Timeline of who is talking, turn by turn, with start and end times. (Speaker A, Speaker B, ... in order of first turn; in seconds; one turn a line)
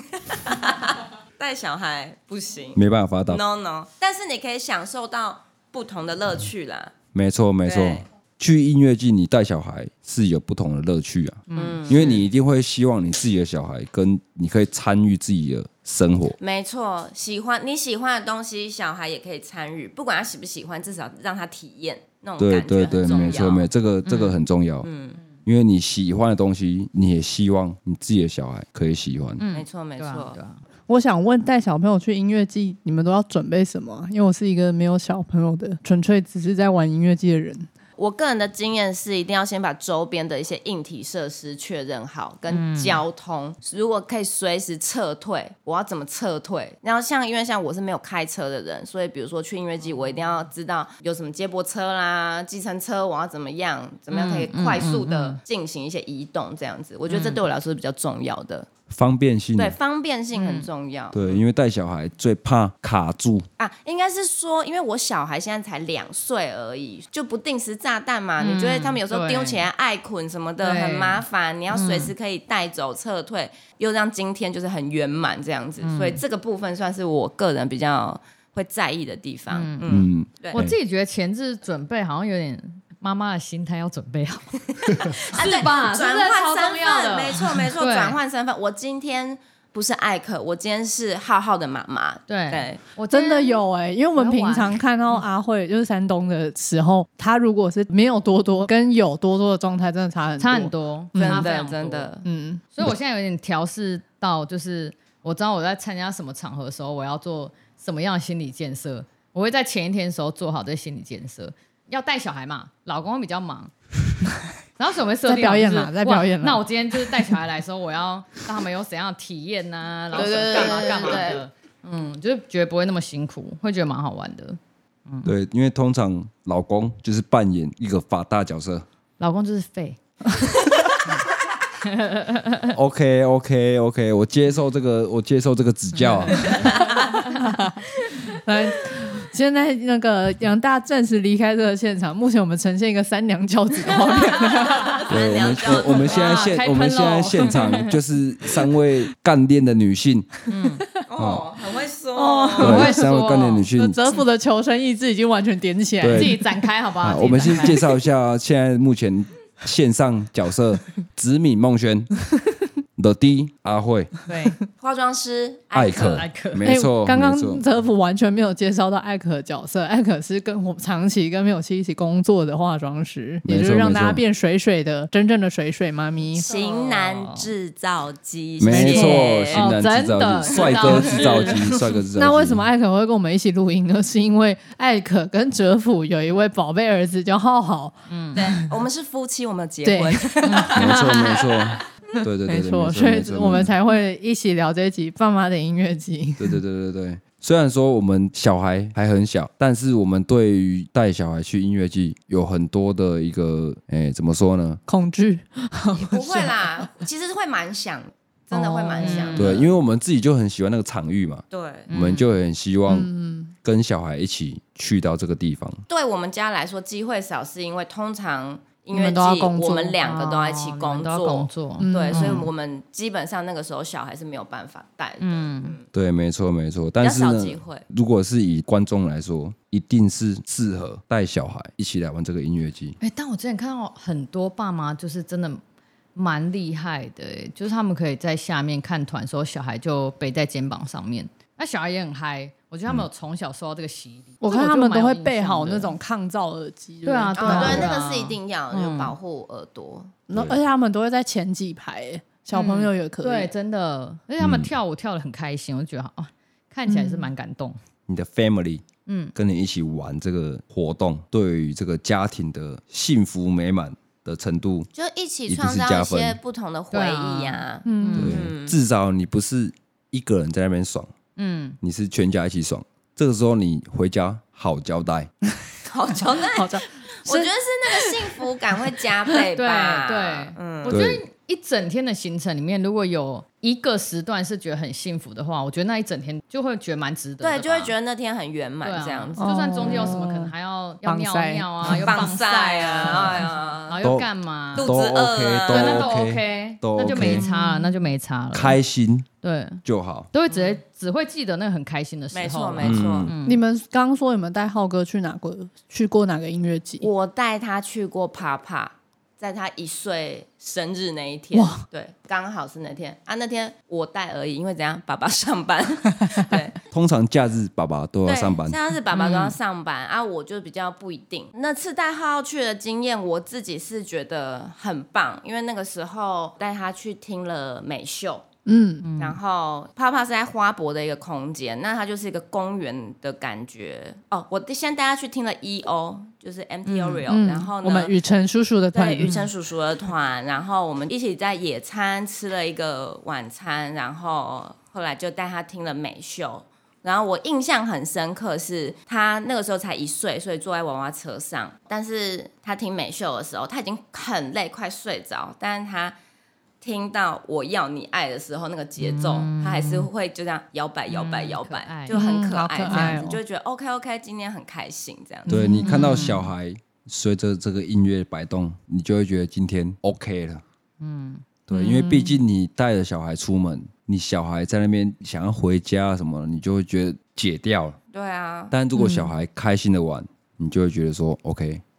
Speaker A: 0.2-6.9
Speaker B: 2.7-3.4
Speaker B: 7.1-16.4
Speaker A: 7.6-8.1
Speaker C: 11.5-11.8
Speaker A: 11.6-12.2
Speaker A: 16.4-23.7
Speaker B: 22.4-24.9
Speaker C: 23.0-23.5
Speaker C: 24.1-24.4
Speaker A: 24.8-25.2
Speaker B: 25.4-29.4
Speaker C: 29.4-30.6
Speaker A: 29.5-30.4
Speaker D: 30.9-37.7
Speaker A: 38.0-58.7
Speaker C: 42.5-43.0
Speaker C: 54.1-55.4
Speaker C: 57.1-57.4
Speaker B: 58.9-59.8
Speaker A: 59.6-61.2
Speaker C: 60.3-60.7
Speaker B: 61.1-63.5
Speaker A: 63.6-80.6
Speaker C: 68.4-69.7
Speaker C: 70.6-72.1
Speaker C: 75.8-76.2
Speaker C: 79.5-79.9
Speaker B: 79.9-80.8
Speaker C: 80.5-88.2
Speaker A: 84.9-92.8
Speaker C: 92.3-93.6
Speaker D: 93.1-101.5
Speaker C: 94.1-95.2
Speaker C: 100.4-102.1
Speaker A: 101.1-102.2
Speaker D: 102.2-102.6
Speaker C: 102.7-113.7
Speaker C: 114.8-125.3
Speaker D: 115.2-117.3
Speaker A: 120.1-121.4
Speaker B: 125.2-128.8
Speaker C: 129.2-130.0
Speaker C: 131.8-132.7
Speaker B: 132.7-136.7
Speaker C: 136.3-136.6
Speaker D: 137.4-137.7
Speaker D: 138.3-145.0
Speaker A: 144.5-146.6
Speaker B: 145.1-150.3
Speaker C: 146.0-147.9
Speaker C: 150.5-150.8
Speaker A: 151.0-152.9
Speaker B: 151.2-151.4
Speaker D: 152.2-153.0
Speaker B: 152.6-154.0
Speaker C: 152.6-153.7
Speaker D: 153.8-156.5
Speaker B: 156.0-156.3
Speaker C: 156.1-157.8
Speaker B: 157.0-162.1
Speaker B: 162.9-164.1
Speaker C: 164.3-164.6
Speaker A: 164.8-166.2
Speaker B: 165.7-167.6
Speaker C: 165.9-166.7
Speaker D: 166.6-176.5
Speaker B: 173.4-174.2
Speaker C: 176.3-177.5
Speaker A: 176.4-179.7
Speaker B: 178.6-182.7
Speaker C: 178.7-181.6
Speaker A: 180.5-181.9
Speaker D: 182.1-188.4
Speaker C: 188.1-188.4
Speaker A: 188.3-191.8
Speaker D: 189.8-190.7
Speaker C: 190.4-190.8
Speaker B: 190.7-193.7
Speaker D: 192.5-196.6
Speaker B: 196.4-204.8
Speaker D: 204.9-206.9
Speaker A: 205.9-209.7
Speaker D: 208.5-209.4
Speaker C: 209.0-209.6
Speaker B: 209.3-213.1
Speaker A: 211.5-211.9
Speaker C: 211.9-212.3
Speaker D: 212.9-213.5
Speaker B: 213.6-215.8
Speaker A: 215.9-225.8
Speaker D: 218.9-219.9
Speaker C: 220.0-222.5
Speaker D: 221.8-222.5
Speaker C: 225.2-225.8
Speaker B: 225.9-233.0
Speaker A: 227.0-227.8
Speaker C: 233.0-235.6
Speaker C: 236.1-245.9
Speaker D: 244.4-247.9
Speaker C: 247.0-249.1
Speaker A: 247.3-250.1
Speaker D: 250.3-253.5
Speaker B: 250.3-250.6
Speaker C: 252.5-257.8
Speaker B: 254.4-254.7
Speaker D: 256.9-257.3
Speaker B: 258.1-258.8
Speaker C: 259.1-259.3
Speaker B: 259.3-264.9
Speaker A: 264.9-268.7
Speaker B: 265.5-266.4
Speaker C: 266.9-268.4
Speaker D: 267.8-268.4
Speaker B: 268.1-271.1
Speaker C: 271.4-271.8
Speaker B: 271.8-275.3
Speaker A: 275.9-281.0
Speaker D: 276.5-278.1
Speaker C: 279.6-287.9
Speaker B: 280.9-281.2
Speaker A: 287.4-290.1
Speaker C: 288.8-294.9
Speaker D: 289.4-290.5
Speaker D: 291.0-292.2
Speaker A: 291.8-294.0
Speaker B: 294.0-297.4
Speaker A: 294.7-296.1
Speaker C: 295.7-298.8
Speaker D: 297.0-298.0
Speaker B: 298.5-299.2
Speaker C: 299.4-303.6
Speaker B: 299.8-300.3
Speaker A: 300.5-300.8
Speaker A: 302.3-303.3
Speaker B: 302.8-303.3
Speaker D: 303.4-307.1
Speaker A: 307.0-316.7
Speaker D: 311.5-311.8
Speaker B: 316.9-318.8
Speaker A: 318.2-328.4
Speaker C: 319.1-319.6
Speaker D: 328.6-329.1
Speaker C: 329.0-329.4
Speaker A: 329.2-338.1
Speaker C: 336.9-337.2
Speaker D: 337.3-339.4
Speaker A: 338.9-356.1
Speaker A: 356.8-365.6
Speaker C: 359.0-360.1
Speaker C: 361.1-362.2
Speaker D: 362.1-363.4
Speaker C: 362.9-363.2
Speaker D: 365.5-366.3
Speaker B: 365.5-370.6
Speaker C: 365.8-366.5
Speaker C: 371.0-371.4
Speaker B: 371.7-378.0
Speaker D: 371.7-372.3
Speaker A: 378.1-378.7
Speaker B: 378.7-381.8
Speaker D: 379.0-379.3